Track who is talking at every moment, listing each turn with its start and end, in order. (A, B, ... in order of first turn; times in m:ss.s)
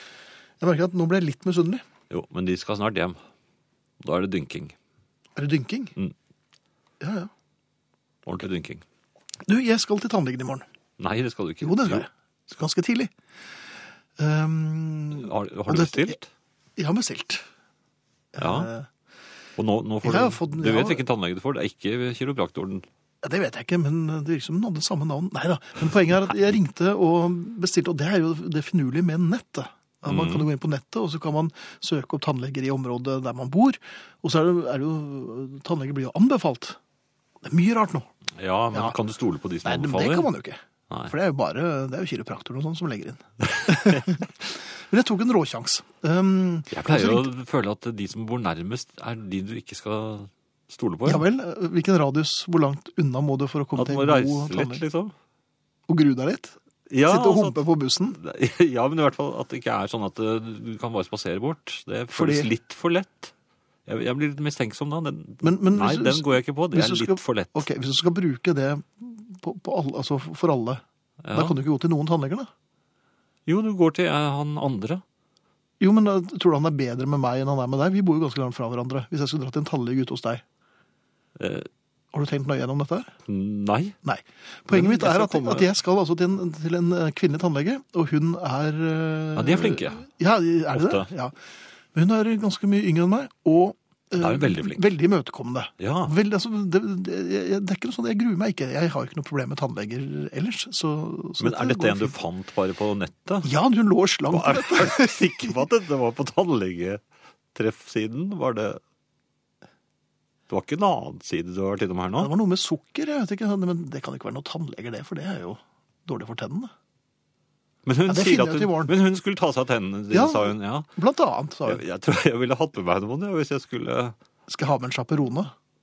0:00.6-0:01.8 A
0:02.1-0:03.2 B
0:04.0-0:04.8 B
0:05.4-0:06.0 A
0:07.0-0:07.3 A
0:08.2-0:08.8 B
0:09.5-0:10.6 A
0:11.0-0:12.1 B
0:11.6-0:13.1 A
0:14.2-0:16.2 A
0:15.1-0:16.3 B
0:16.8-0:17.4 A
0:18.4-0:18.9 A
0:18.4-0:18.7 B
0:19.6-0:22.8 B
0:20.0-0:21.0 A
0:23.2-0:36.8 A
0:30.1-0:30.5 B
0:37.4-0:38.1 A
0:38.4-0:40.3 B
0:39.6-0:47.3 A
0:43.6-0:44.0 B
0:46.7-0:51.3 B
0:51.0-0:54.8 A
0:53.8-0:55.1 B
0:55.9-0:58.2 A
0:56.9-0:57.6 B
0:58.2-1:03.3 B
1:02.1-1:02.5 A
1:03.9-1:07.7 B
1:05.4-1:10.8 A
1:11.2-1:11.6 B
1:11.3-1:12.5 A
1:13.5-1:15.0 B
1:15.8-1:20.4 A
1:21.4-1:21.7 B
1:22.1-1:23.1 A
1:23.3-1:24.0 B
1:24.0-1:31.3 A
1:24.7-1:25.7 B
1:29.4-1:30.1 B
1:30.7-1:31.1 B
1:31.9-1:42.1 A
1:34.2-1:34.8 B
1:35.8-1:36.1 B
1:41.4-1:43.5 B
1:43.4-1:45.5 A
1:44.3-1:47.0 B
1:47.5-1:48.8 B
1:50.5-1:52.3 B
1:52.2-1:56.7 A
1:57.8-2:00.9 B
1:58.1-1:58.9 A
2:00.1-2:01.8 A
2:01.7-2:04.2 B
2:04.5-2:05.5 A